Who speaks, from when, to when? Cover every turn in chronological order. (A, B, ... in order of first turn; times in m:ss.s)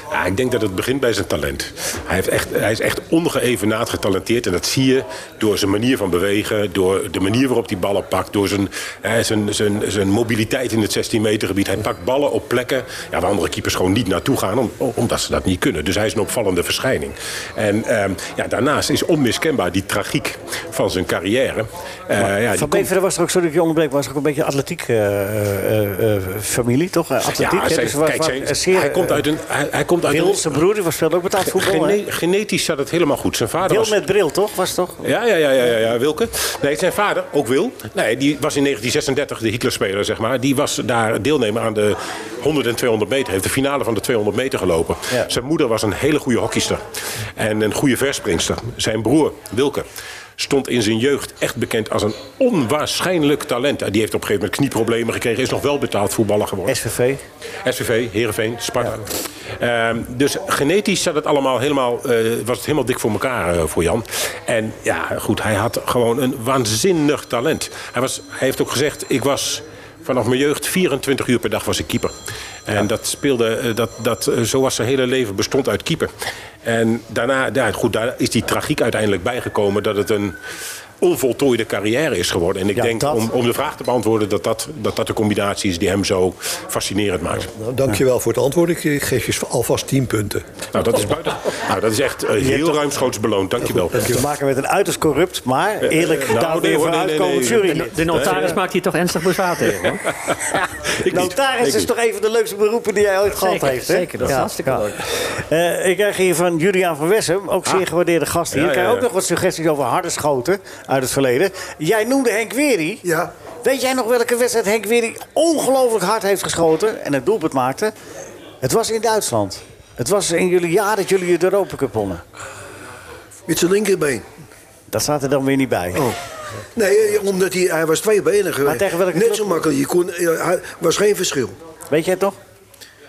0:00.1-0:22.9 A
0:22.2-0:29.2 B
0:27.3-0:30.6 A
0:30.1-0:32.0 B
0:31.4-0:34.0 A
0:33.6-0:35.0 B
0:35.0-0:49.9 A
0:50.4-0:56.8 A
0:56.7-0:57.2 B
0:57.6-1:12.2 A
1:12.7-1:16.1 A
1:16.6-1:20.4 A
1:21.0-1:27.5 A
1:22.8-1:23.3 B
1:27.5-1:30.4 C
1:30.7-1:34.2 A
1:32.4-1:32.8 B
1:33.8-1:38.6 B
1:35.8-1:38.5 A
1:37.7-1:40.0 D
1:39.7-1:41.9 A
1:41.1-1:53.0 B
1:43.3-1:45.0 D
1:48.5-1:49.1 A
1:53.0-1:53.3 E
1:53.6-1:57.9 B
1:58.6-2:02.2 B
2:03.5-2:04.3 E
2:04.9-2:06.1 B
2:06.8-2:11.6 E
2:08.6-2:09.6 B
2:11.9-2:12.4 B